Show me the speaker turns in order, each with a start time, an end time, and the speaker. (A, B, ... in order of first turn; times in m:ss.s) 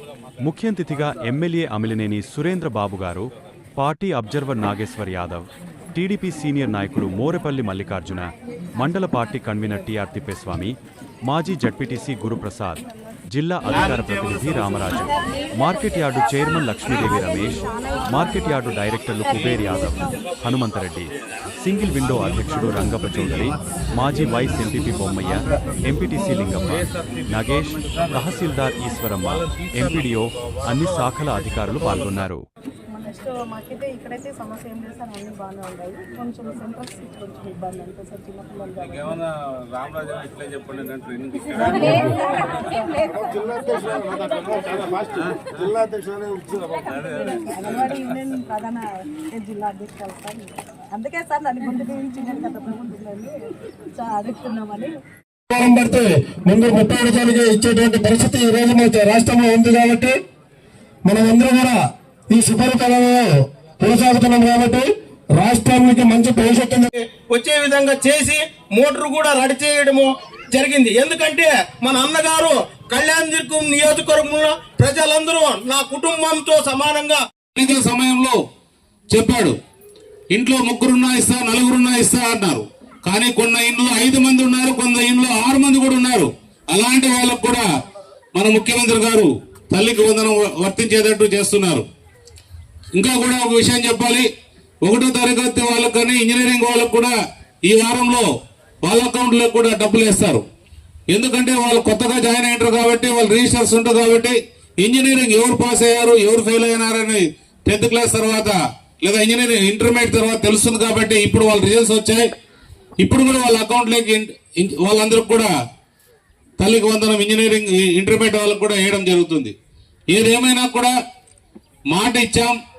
0:00.4-0:10.8 A
0:11.3-0:21.1 A
0:21.6-0:32.4 A
0:32.9-0:39.2 B
0:39.0-0:42.1 C
0:41.6-0:43.5 B
0:43.1-0:46.8 D
0:47.0-0:53.4 B
0:53.9-0:54.9 B
0:55.5-1:00.1 D
1:01.0-1:01.8 D
1:02.3-1:06.9 D
1:07.4-1:17.2 E
1:17.5-1:18.4 C
1:19.1-1:19.6 C
1:20.3-1:27.6 C
1:28.3-1:31.9 C
1:32.9-1:34.3 C
1:34.8-1:37.1 C
1:37.6-1:38.3 C
1:38.8-1:40.4 C
1:41.1-1:52.3 C
1:53.0-1:55.5 C
1:56.6-1:59.5 C
2:00.1-2:00.9 C
2:01.9-2:02.6 C